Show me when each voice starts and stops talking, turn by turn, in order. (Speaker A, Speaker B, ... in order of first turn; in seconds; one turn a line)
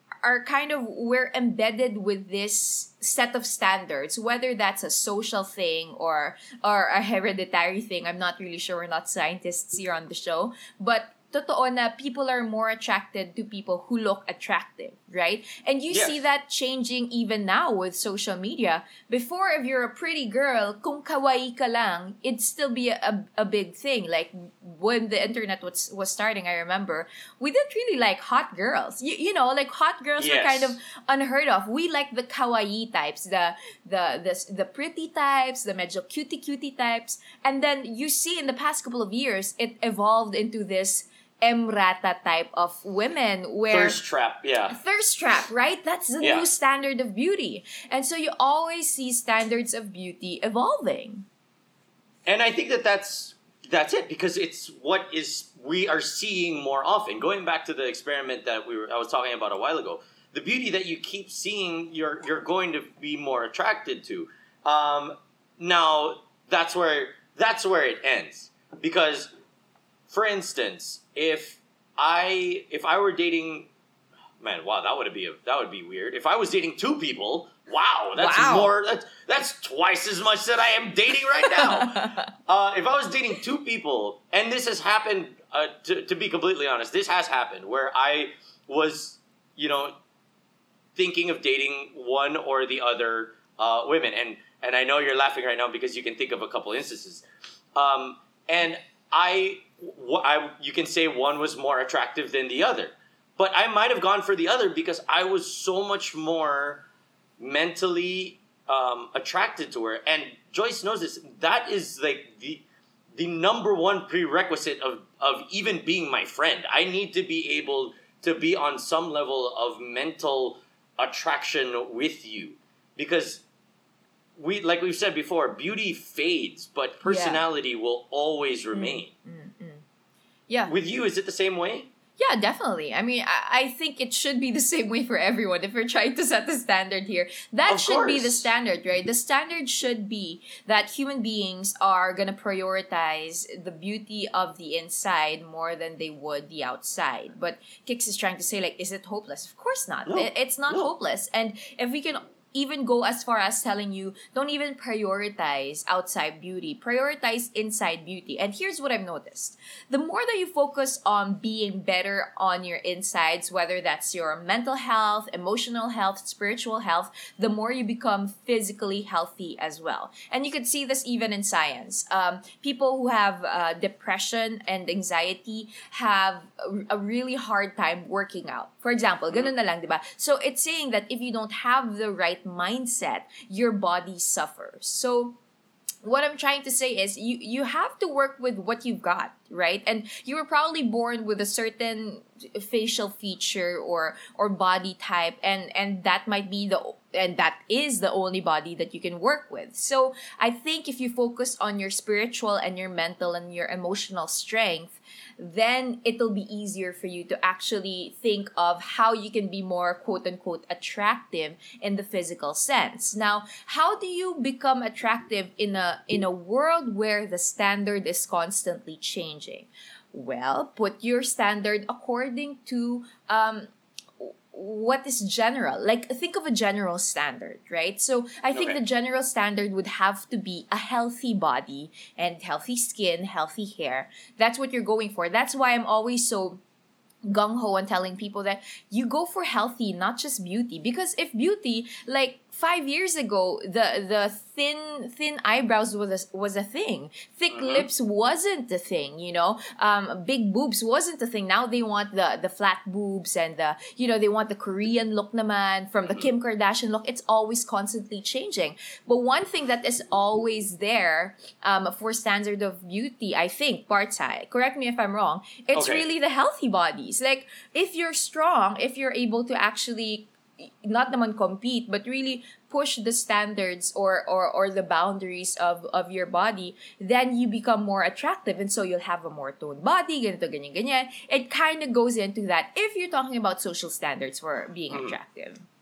Speaker A: 0.2-44.0
Speaker B: 15.9-16.2
Speaker B: 30.2-30.8
Speaker B: 43.7-44.8
Speaker A: 44.7-51.3
Speaker B: 46.2-46.5
Speaker B: 52.3-69.3
Speaker B: 70.1-73.7
Speaker B: 74.4-90.0
Speaker A: 78.2-78.7
Speaker A: 81.6-82.3
Speaker B: 91.0-97.2
Speaker B: 97.8-106.8
Speaker B: 107.4-112.6
Speaker B: 113.2-123.4
Speaker B: 124.4-129.1
Speaker A: 127.0-127.4
Speaker A: 128.7-129.8
Speaker B: 130.7-131.9
Speaker A: 132.2-185.4
Speaker B: 137.7-138.5
Speaker B: 150.1-150.9
Speaker A: 186.0-236.6
Speaker A: 237.2-285.6
Speaker B: 247.5-247.9
Speaker B: 265.7-266.1
Speaker B: 284.9-285.2